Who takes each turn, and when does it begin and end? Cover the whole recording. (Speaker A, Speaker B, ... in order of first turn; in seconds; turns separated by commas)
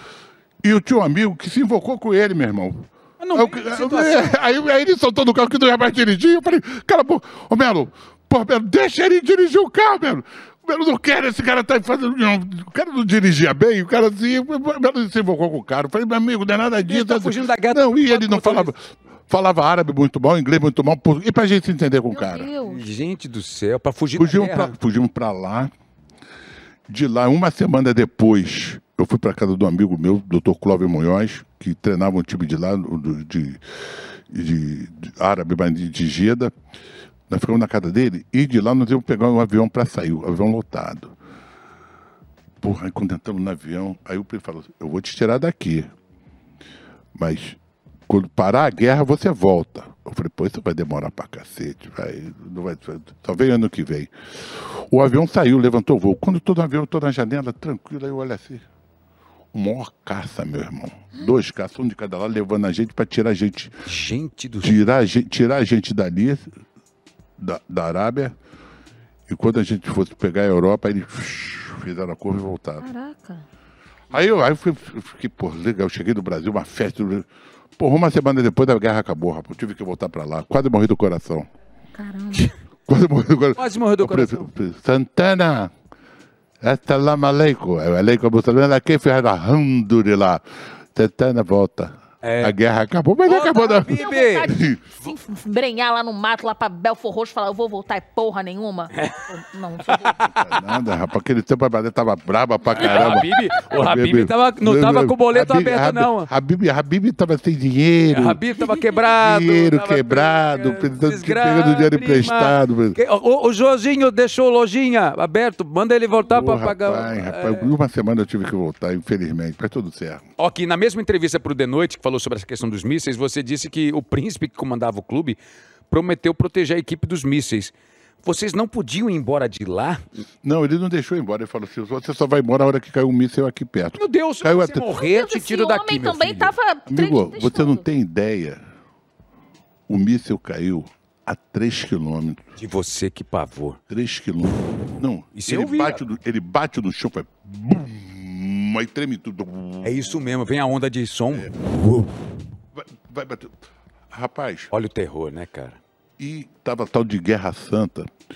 Speaker A: 0.6-22.5, Speaker B: 3.2-4.3, Speaker B: 16.9-18.7, Speaker C: 22.1-22.8, Speaker B: 22.6-24.7, Speaker A: 24.2-25.7, Speaker A: 26.9-36.5, Speaker A: 37.3-41.1, Speaker A: 42.6-45.9, Speaker A: 47.1-58.6, Speaker A: 59.5-63.7, Speaker B: 63.9-64.8, Speaker A: 64.6-66.5, Speaker A: 67.4-68.3, Speaker A: 69.3-72.9, Speaker C: 72.8-73.4, Speaker A: 74.1-81.5, Speaker C: 82.0-82.5, Speaker A: 82.4-85.7, Speaker B: 83.5-84.5, Speaker A: 86.6-90.4, Speaker A: 90.9-94.8, Speaker B: 92.2-92.5, Speaker B: 93.2-94.5, Speaker C: 93.3-100.2, Speaker B: 98.9-99.3, Speaker B: 99.8-100.6, Speaker A: 100.2-108.4, Speaker B: 102.7-106.3, Speaker B: 108.1-117.7, Speaker A: 109.0-113.0, Speaker A: 116.3-120.2, Speaker B: 120.4-125.4, Speaker B: 125.9-130.0, Speaker A: 130.4-134.9, Speaker B: 134.0-136.5, Speaker C: 134.9-137.8, Speaker A: 136.9-138.6, Speaker A: 139.9-142.5, Speaker B: 142.6-143.8, Speaker A: 143.9-150.0, Speaker B: 145.3-146.0, Speaker B: 149.8-152.3, Speaker A: 151.3-151.6, Speaker A: 152.7-153.5, Speaker A: 154.1-154.7, Speaker B: 154.7-155.8, Speaker A: 156.2-158.1